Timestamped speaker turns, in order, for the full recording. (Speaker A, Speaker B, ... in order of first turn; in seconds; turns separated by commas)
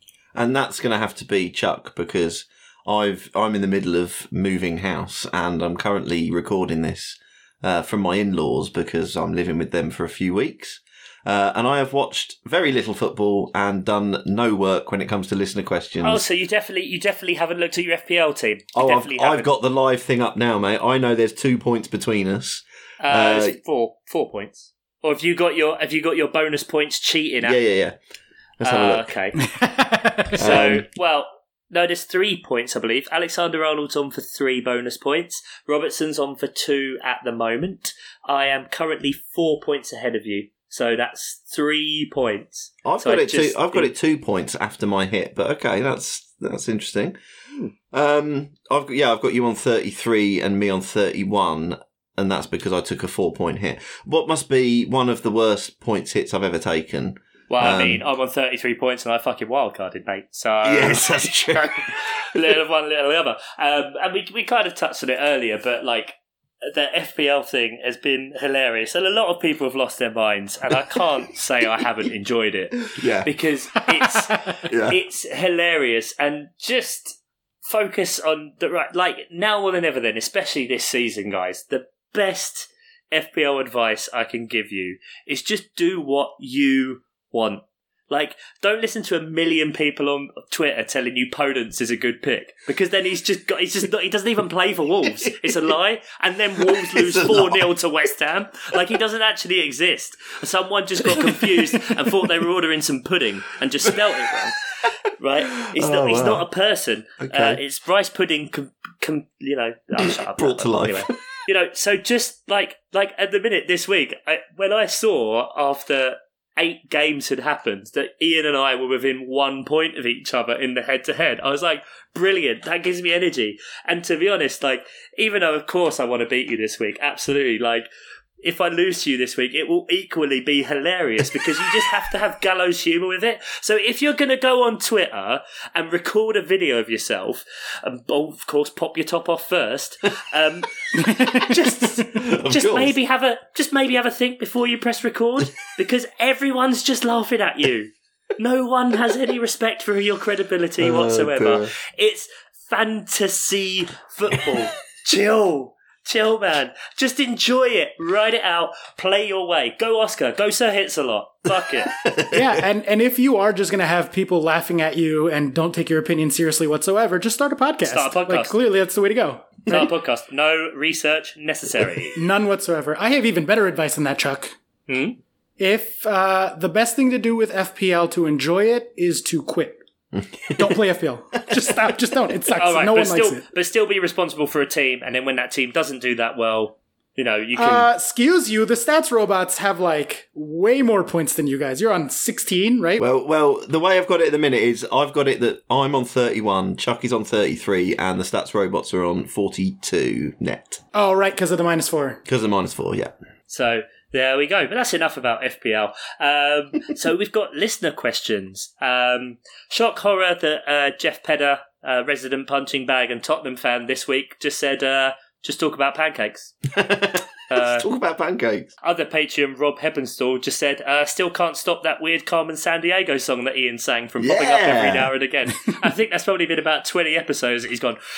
Speaker A: 0.3-16.2, Speaker B: 16.0-19.5, Speaker A: 18.7-23.6, Speaker B: 23.0-27.6, Speaker A: 27.4-28.0, Speaker A: 28.6-29.1, Speaker B: 28.6-29.4, Speaker C: 29.4-30.4, Speaker A: 30.4-30.8, Speaker B: 30.4-43.9, Speaker A: 42.8-47.2, Speaker A: 47.9-58.0, Speaker B: 57.5-104.6, Speaker A: 60.6-62.0, Speaker A: 73.0-73.3, Speaker A: 74.7-75.0, Speaker A: 96.7-97.7, Speaker A: 101.0-102.2, Speaker B: 105.2-127.9, Speaker A: 105.6-106.5, Speaker A: 107.2-107.6, Speaker A: 110.0-111.1, Speaker B: 128.4-161.9, Speaker C: 141.0-142.1, Speaker A: 142.2-142.9, Speaker A: 150.8-151.7, Speaker A: 161.9-162.6, Speaker C: 162.3-169.9, Speaker B: 167.8-168.5, Speaker B: 169.7-172.2, Speaker C: 172.2-174.6, Speaker B: 174.9-175.2, Speaker C: 175.6-179.8, Speaker A: 180.2-180.8, Speaker C: 180.5-183.4, Speaker B: 182.6-187.9, Speaker C: 187.6-193.0, Speaker A: 193.0-200.8, Speaker C: 200.9-202.2, Speaker A: 202.3-203.1, Speaker B: 203.5-216.6, Speaker A: 216.7-218.7, Speaker B: 217.5-217.9, Speaker B: 218.8-228.0, Speaker A: 224.2-225.1